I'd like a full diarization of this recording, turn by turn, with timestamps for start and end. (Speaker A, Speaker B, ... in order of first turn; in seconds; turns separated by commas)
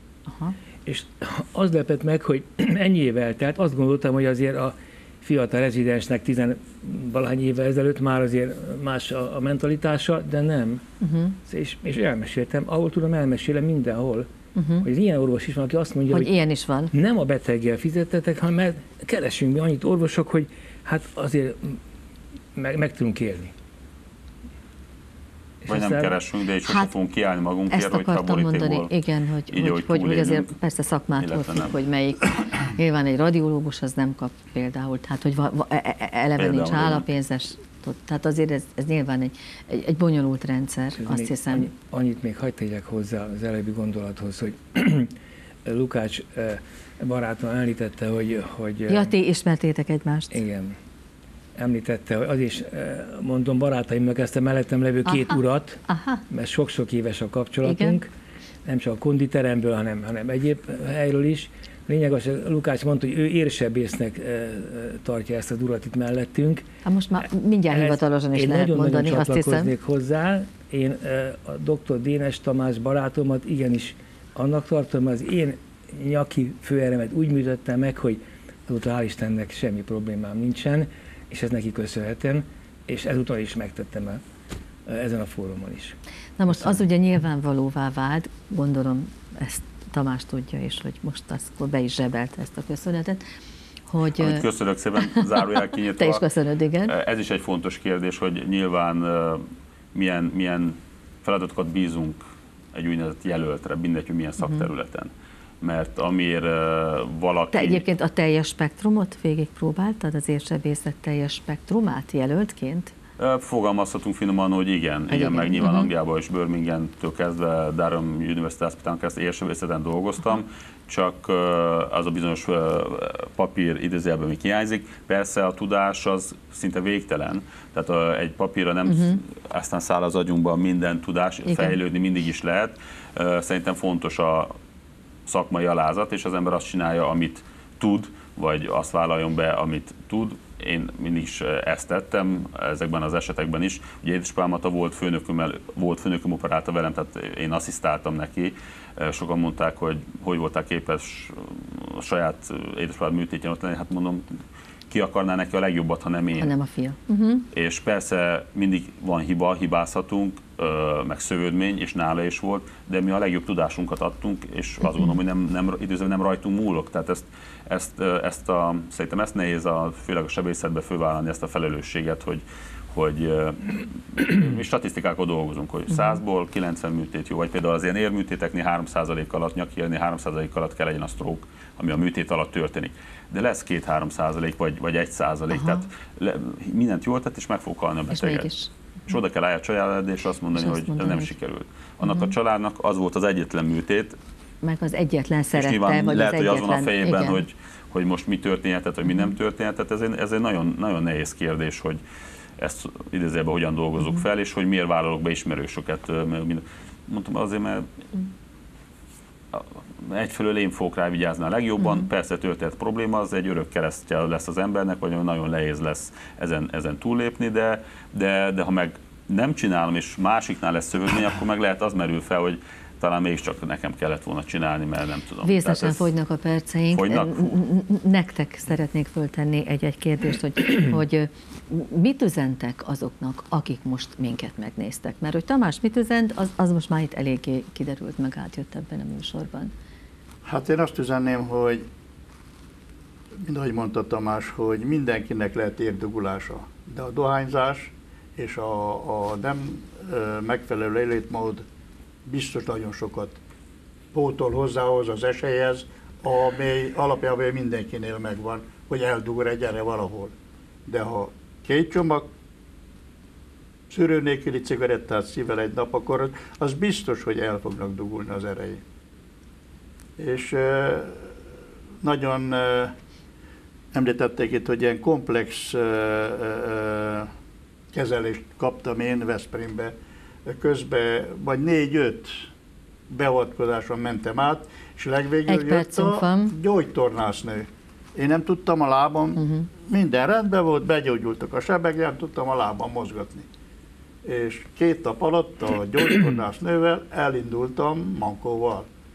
Speaker A: 0.3-0.6, Speaker B: 0.8-10.8, Speaker A: 11.0-11.4, Speaker B: 11.5-14.3, Speaker A: 14.6-14.9, Speaker B: 14.8-16.3, Speaker A: 16.1-16.9, Speaker B: 16.9-21.8, Speaker B: 22.6-23.5, Speaker B: 25.6-26.1, Speaker C: 25.7-28.9, Speaker A: 26.6-26.9, Speaker A: 27.7-41.7, Speaker C: 29.5-30.5, Speaker C: 31.2-31.8, Speaker C: 36.4-37.0, Speaker B: 41.0-45.1, Speaker B: 45.7-49.1, Speaker A: 48.9-50.4, Speaker B: 50.3-50.8, Speaker B: 51.6-58.1, Speaker A: 55.1-56.2, Speaker A: 57.6-58.0, Speaker B: 58.6-66.7, Speaker A: 66.8-69.7, Speaker B: 67.7-84.2, Speaker B: 84.9-86.0, Speaker A: 86.4-93.2, Speaker A: 93.9-94.4, Speaker C: 94.2-96.2, Speaker A: 95.9-96.9, Speaker C: 96.9-102.2, Speaker C: 102.7-107.8, Speaker A: 104.4-104.7, Speaker A: 107.5-112.9, Speaker C: 113.2-134.5, Speaker A: 115.1-115.9, Speaker A: 128.9-129.2, Speaker A: 131.5-131.8, Speaker C: 135.3-156.5, Speaker A: 156.4-157.5, Speaker C: 157.5-188.5, Speaker A: 185.5-185.8, Speaker A: 188.1-188.7, Speaker C: 189.1-194.2, Speaker A: 190.6-191.3, Speaker A: 192.0-192.3, Speaker A: 194.6-197.4, Speaker C: 195.5-202.0, Speaker C: 202.6-207.9, Speaker C: 209.5-226.1, Speaker A: 225.4-239.7, Speaker C: 226.9-227.6, Speaker D: 240.4-241.9, Speaker D: 243.4-251.7, Speaker D: 252.2-253.4, Speaker D: 254.1-260.3, Speaker D: 260.9-262.3, Speaker D: 263.9-268.8, Speaker D: 270.2-271.3, Speaker D: 272.0-272.9, Speaker D: 273.9-277.3, Speaker D: 277.9-282.5, Speaker D: 283.1-293.5, Speaker A: 285.5-286.6, Speaker A: 289.4-289.7, Speaker D: 294.2-298.9